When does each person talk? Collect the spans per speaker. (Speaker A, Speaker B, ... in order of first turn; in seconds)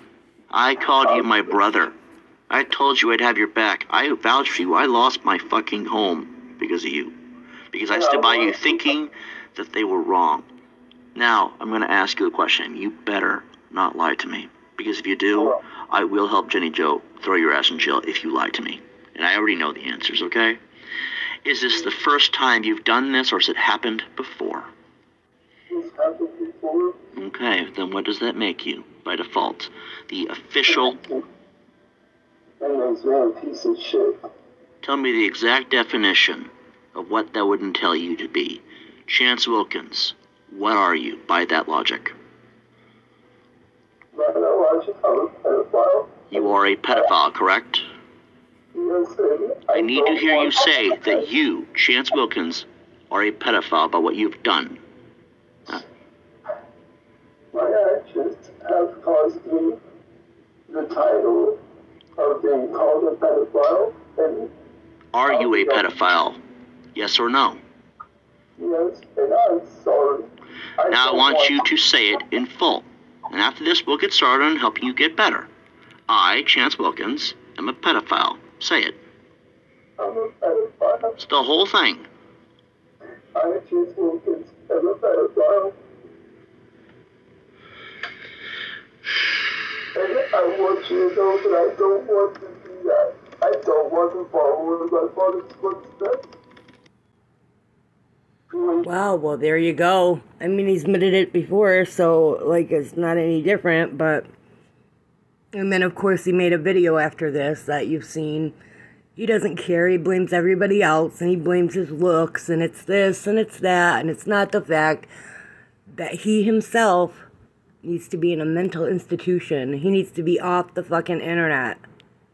Speaker A: 0.5-1.9, 2.5-7.2, 7.7-10.5, 11.1-20.6, 21.4-24.7, 27.1-31.0, 34.8-42.1, 46.3-47.8, 49.7-54.8, 65.1-66.4, 66.9-67.6, 70.9-75.5, 76.1-79.0, 81.2-82.1
Speaker B: 1.0-1.4, 7.9-8.9, 15.3-15.6, 25.7-26.9, 30.7-31.2, 32.6-34.2, 44.1-47.1, 48.7-51.2, 57.5-59.8, 60.7-61.6, 62.2-64.5, 65.3-65.8, 68.6-71.6, 80.0-81.1, 83.3-85.7, 89.9-96.3, 98.5-98.9
Speaker C: 98.8-104.3, 105.5-108.5, 109.2-115.1, 115.9-117.3, 117.8-121.8